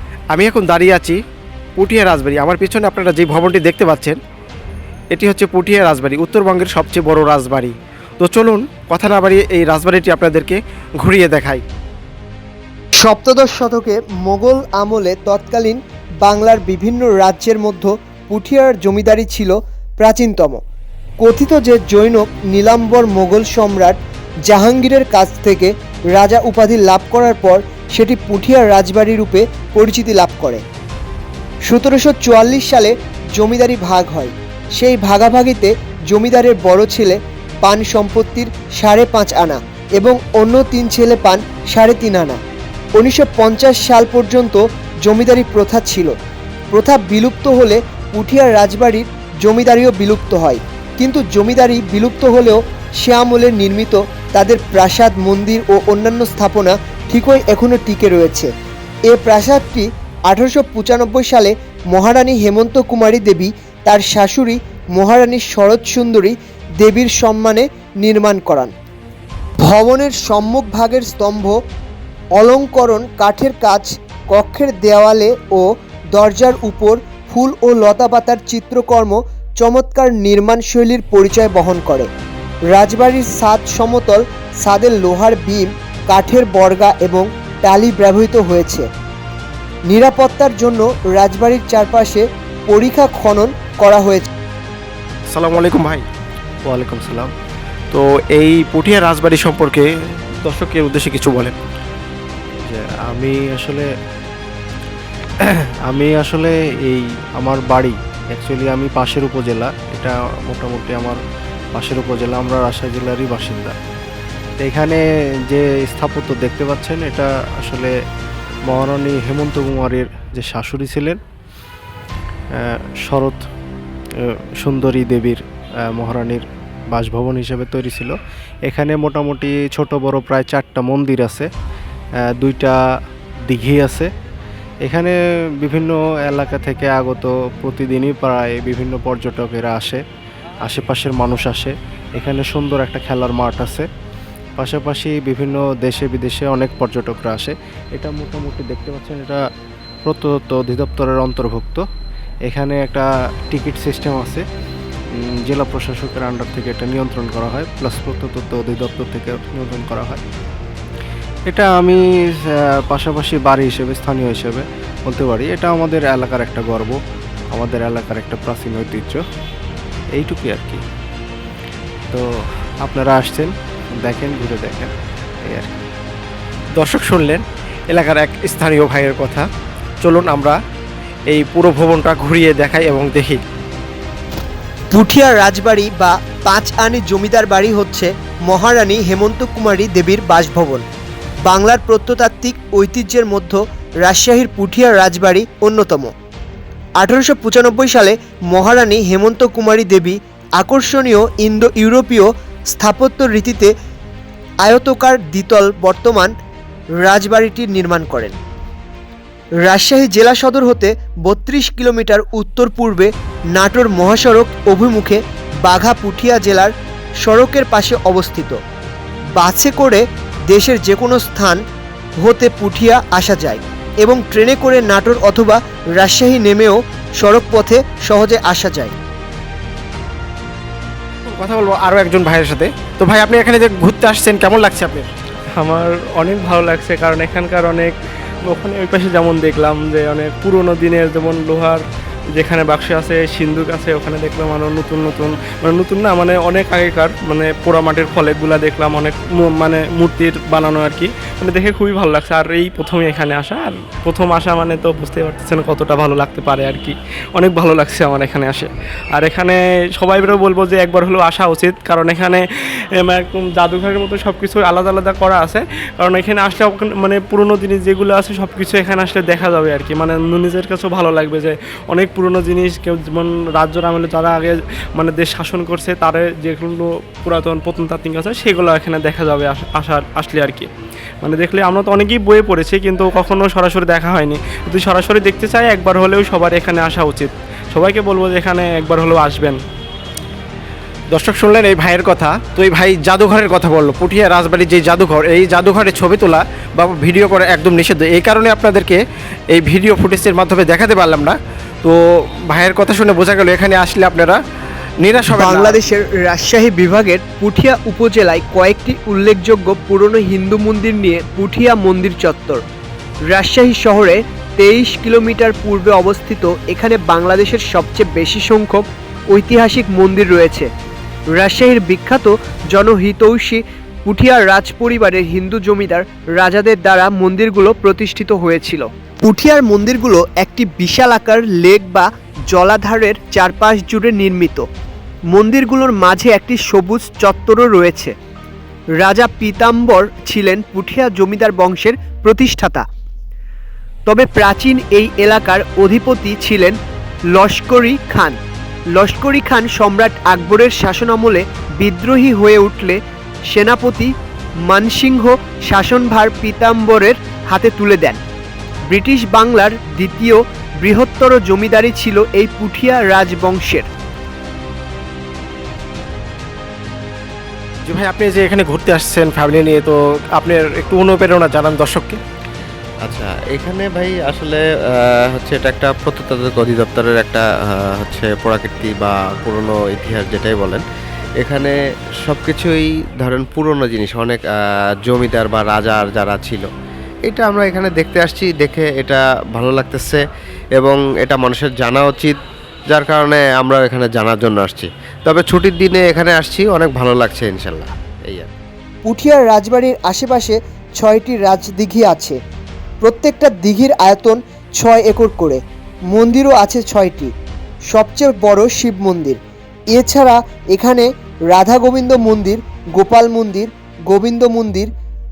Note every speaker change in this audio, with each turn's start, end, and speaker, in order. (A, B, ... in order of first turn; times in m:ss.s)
0:00.3-0:01.2 A
0:01.8-0:04.2 A
0:05.1-0:11.6 A
0:13.0-0:20.6 B
0:21.2-0:24.0 B
0:24.5-0:30.6 B
0:31.7-0:42.4 B
0:43.0-0:46.1 B
0:46.7-0:58.5 B
0:59.1-1:08.7 B
1:09.6-1:11.6 B
1:12.4-1:22.1 B
1:22.7-1:28.9 B
1:29.9-1:34.3 B
1:35.3-1:36.0 A
1:36.7-1:37.3 C
1:37.9-1:41.6 A
1:42.6-1:43.9 C
1:45.4-1:51.2 C
1:51.8-1:53.8 C
1:54.6-1:57.9 C
1:58.7-2:01.2 C
2:02.6-2:03.4 C
2:04.2-2:05.4 C
2:06.0-2:08.2 C
2:08.7-2:11.5 C
2:12.4-2:12.8 C
2:13.5-2:14.1 C
2:14.8-2:20.0 C
2:20.6-2:23.8 C
2:24.6-2:29.4 C
2:30.0-2:31.8 C
2:32.5-2:34.4 C
2:35.1-2:40.2 C
2:41.5-2:47.0 C
2:47.5-2:49.2 C
2:50.2-2:50.8 C
2:52.8-2:54.9 C
2:56.8-2:59.4 A
3:00.0-3:00.6 A
3:01.3-3:03.4 A
3:04.9-3:10.8 B
3:11.5-3:16.1 B
3:17.0-3:23.7 B
3:24.6-3:26.3 B
3:27.0-3:28.3 B
3:29.6-3:36.7 B
3:37.2-3:38.6 B
3:39.4-3:41.6 B
3:42.2-3:48.9 B
3:51.3-3:55.1 A
3:55.6-3:58.0 D
3:58.5-4:01.8 D
4:02.4-4:22.4 D
4:23.0-4:40.7 D
4:41.2-4:49.6 D
4:51.1-5:04.4 A
5:05.0-5:05.8 A
5:05.3-5:12.6 B
5:13.3-5:20.7 B
5:21.3-5:34.6 B
5:35.3-5:38.1 B
5:39.0-5:42.8 B
5:44.1-5:46.8 B
5:47.3-5:48.4 B
5:48.9-5:54.1 B
5:54.7-5:58.2 B
5:58.9-6:03.9 B
6:07.9-6:12.2 A
6:13.0-6:20.8 E
6:21.4-6:26.7 E
6:27.2-6:38.5 E
6:39.0-6:42.4 B
6:43.0-6:45.6 B
6:46.1-6:47.3 B
6:47.9-6:49.4 B
6:49.9-6:54.9 B